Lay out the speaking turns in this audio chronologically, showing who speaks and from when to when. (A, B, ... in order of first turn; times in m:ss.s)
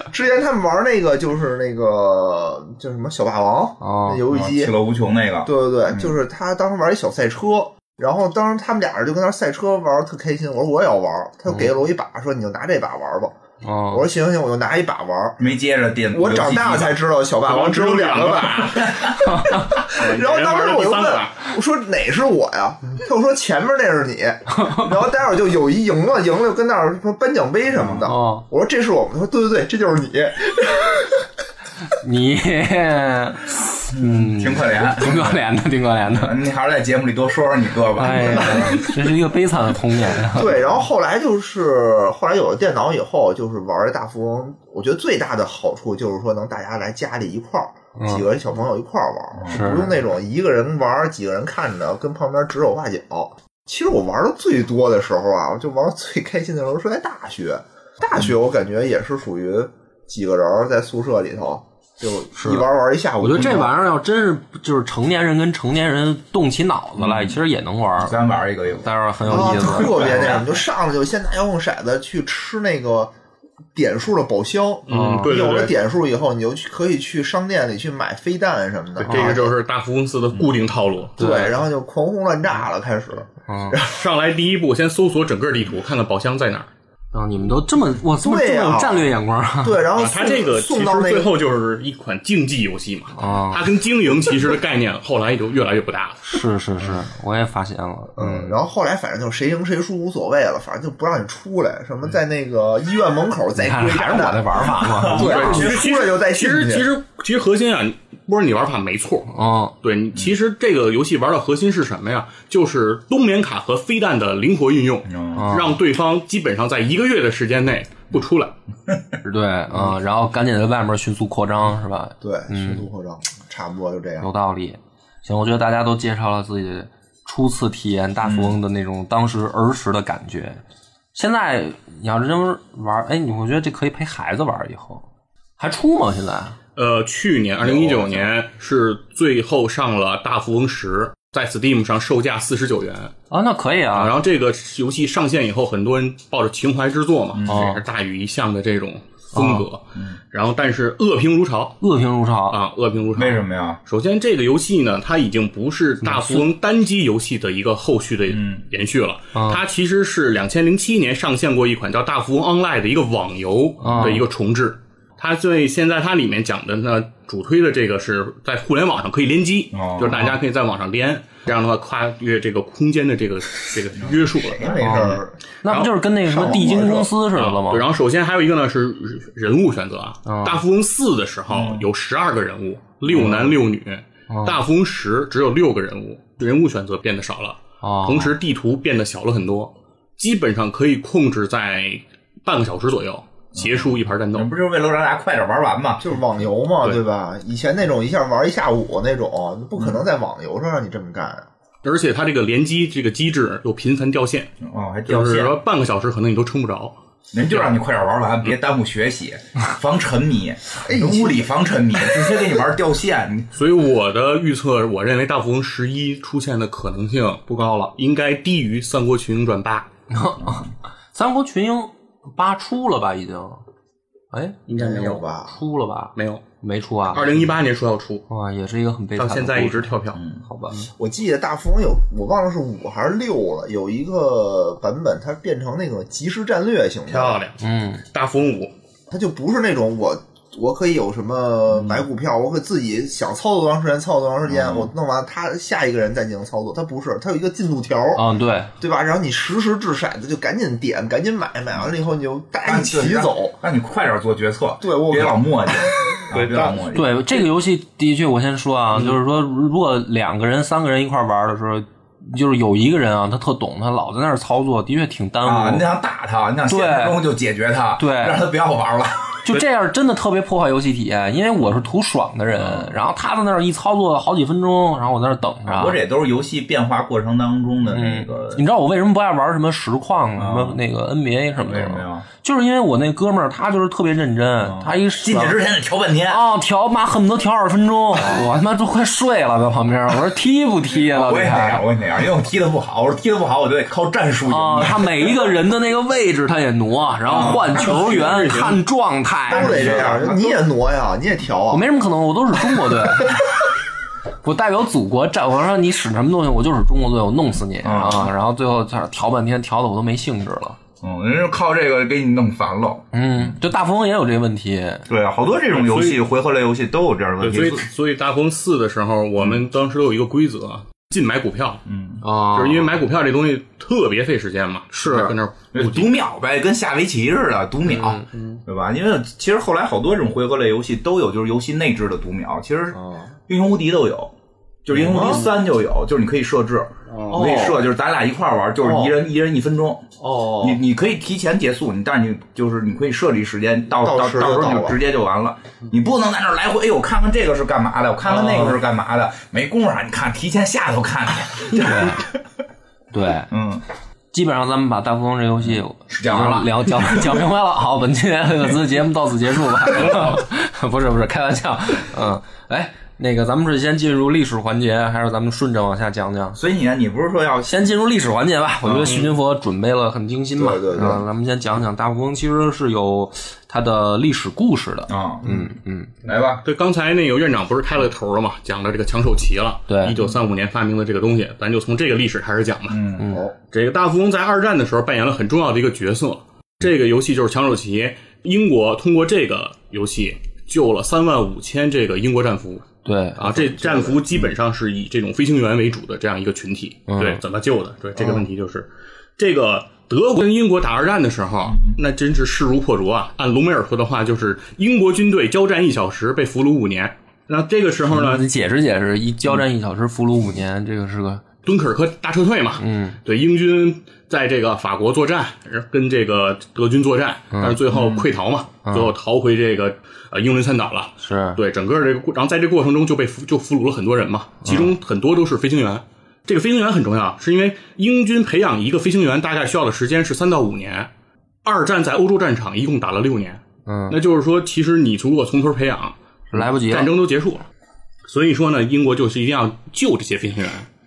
0:00.1-0:04.8 A
0:03.8-0:04.2 B
0:04.3-0:06.1 C
0:05.4-0:13.3 A
0:13.6-0:14.1 B
0:13.9-0:15.4 A
0:15.4-0:17.0 C
0:16.1-0:31.2 A
0:17.4-0:19.0 D
0:18.8-0:19.6 C
0:19.3-0:19.6 B
0:19.8-0:21.4 D
0:24.5-0:24.8 B
0:27.7-0:28.1 C
0:28.0-0:28.4 B
0:31.9-0:36.3 B
0:33.9-0:35.4 C
0:36.1-0:39.0 C
0:38.0-0:40.6 B
0:38.4-0:38.8 A
0:40.3-1:03.7 A
0:48.0-0:48.3 B
0:49.4-0:49.8 C
0:49.5-0:49.9 B
1:02.4-1:02.7 B
1:03.2-1:08.2 B
1:07.0-1:07.4 C
1:08.0-1:10.5 C
1:08.8-1:10.4 B
1:09.3-1:13.1 A
1:13.8-1:19.5 A
1:14.9-1:15.8 D
1:14.9-1:15.3 B
1:19.0-1:19.4 B
1:19.1-1:21.2 D
1:21.2-1:23.9 A
1:21.2-1:21.6 B
1:23.5-1:23.8 B
1:23.8-1:26.7 D
1:27.1-1:29.8 B
1:28.2-1:31.3 A
1:30.0-1:36.2 D
1:33.2-1:33.6 B
1:36.2-1:38.6 B
1:38.2-1:46.9 A
1:43.6-1:45.6 B
1:44.8-1:45.8 C
1:45.2-1:58.6 D
1:49.3-1:49.8 B
1:55.1-1:55.6 C
1:55.3-1:55.8 B
1:58.9-1:59.2 C
1:59.2-2:02.9 B
2:02.2-2:04.3 A
2:04.2-2:10.6 B
2:08.2-2:08.6 C
2:11.2-2:15.1 B
2:15.6-2:16.6 B
2:16.8-2:23.1 D
2:17.6-2:18.3 C
2:23.3-2:24.2 B
2:24.0-2:31.8 D
2:27.4-2:27.6 C
2:27.4-2:27.8 B
2:29.3-2:29.7 B
2:31.8-2:32.6 B
2:32.5-2:55.1 D
2:33.2-2:33.8 C
2:36.0-2:36.4 B
2:38.3-2:38.6 C
2:39.3-2:39.6 B
2:43.8-2:44.2 B
2:43.8-2:44.2 C
2:49.7-2:50.3 C
2:54.0-2:55.2 C
2:54.6-2:55.4 A
2:54.8-2:57.9 B
2:55.6-2:55.9 D
2:56.2-2:57.1 A
2:57.3-3:14.5 D
3:00.3-3:00.6 B
3:01.5-3:01.9 C
3:03.1-3:03.6 C
3:04.3-3:04.6 B
3:07.8-3:08.3 B
3:13.6-3:16.1 C
3:16.0-3:21.5 A
3:21.8-3:24.5 D
3:24.6-3:25.5 C
3:25.1-3:27.8 D
3:27.3-3:33.5 C
3:30.8-3:32.0 A
3:33.6-3:39.9 D
3:40.1-3:43.6 B
3:40.4-3:40.7 C
3:44.3-3:44.7 B
3:44.7-3:45.3 D
3:44.8-3:45.6 A
3:45.5-3:47.5 B
3:46.2-3:46.4 D
3:47.1-3:48.2 D
3:48.3-3:49.9 B
3:49.2-3:50.9 D
3:50.1-3:50.4 C
3:50.4-3:50.8 B
3:51.0-3:57.4 A
3:57.1-3:57.6 D
3:57.6-3:58.0 B
3:58.1-3:58.7 D
3:59.1-4:08.2 A
4:01.7-4:02.0 C
4:04.5-4:04.9 C
4:08.2-4:08.7 B
4:08.8-4:13.6 A
4:12.6-4:17.1 C
4:14.8-4:16.9 A
4:16.9-4:25.9 B
4:25.4-4:29.5 C
4:26.7-4:27.2 B
4:28.0-4:28.4 B
4:29.4-4:36.0 B
4:32.5-4:33.0 C
4:35.7-4:38.6 C
4:37.9-4:45.6 B
4:40.4-4:40.8 C
4:41.6-4:42.3 C
4:44.6-4:46.5 C
4:46.3-4:51.9 B
4:51.0-4:55.5 C
4:54.5-5:00.2 B
4:57.3-4:58.6 C
4:57.3-4:58.8 D
4:59.5-5:00.6 C
4:59.5-5:01.9 A
5:01.7-5:03.4 B
5:04.4-5:10.8 B
5:07.8-5:08.3 C
5:11.0-5:13.6 C
5:13.1-5:15.0 B
5:15.1-5:17.9 C
5:15.7-5:16.2 D
5:17.4-5:21.8 D
5:21.9-5:22.2 C
5:22.2-5:22.9 B
5:22.5-5:26.2 D
5:25.7-5:34.3 C
5:27.9-5:28.2 B
5:28.3-5:28.6 D
5:33.0-5:33.3 A
5:34.8-5:52.4 C
5:35.0-5:35.4 A
5:35.1-5:35.4 D
5:37.1-5:37.6 D
5:37.3-5:37.8 B
5:37.4-5:37.6 A
5:38.8-5:39.2 A
5:40.2-5:40.8 A
5:43.9-5:45.0 A
5:48.3-5:48.8 B
5:51.7-5:52.2 B
5:53.1-5:53.5 B
5:53.5-5:53.8 C
5:54.3-6:06.6 B
5:55.6-5:57.4 C
6:00.0-6:00.3 C
6:06.6-6:07.9 C
6:07.7-6:16.1 B
6:08.8-6:09.2 C
6:09.1-6:09.3 D
6:10.6-6:11.2 A
6:15.1-6:15.7 C
6:16.2-6:16.6 C
6:16.6-6:23.0 D
6:19.9-6:20.2 B
6:22.9-6:23.4 C
6:23.2-6:23.5 B
6:23.3-6:23.5 A
6:23.7-6:32.9 D
6:33.0-6:34.2 B
6:33.4-6:48.5 D
6:37.1-6:37.4 B
6:48.1-6:51.4 B
6:51.6-7:11.1 D
6:52.8-6:53.2 B
6:57.5-6:57.8 B
6:57.9-6:58.2 C
6:58.9-6:59.1 B
7:01.2-7:01.6 B
7:04.6-7:04.9 B
7:11.6-7:17.7 D
7:13.9-7:14.2 B
7:16.5-7:17.1 B
7:18.3-7:20.9 D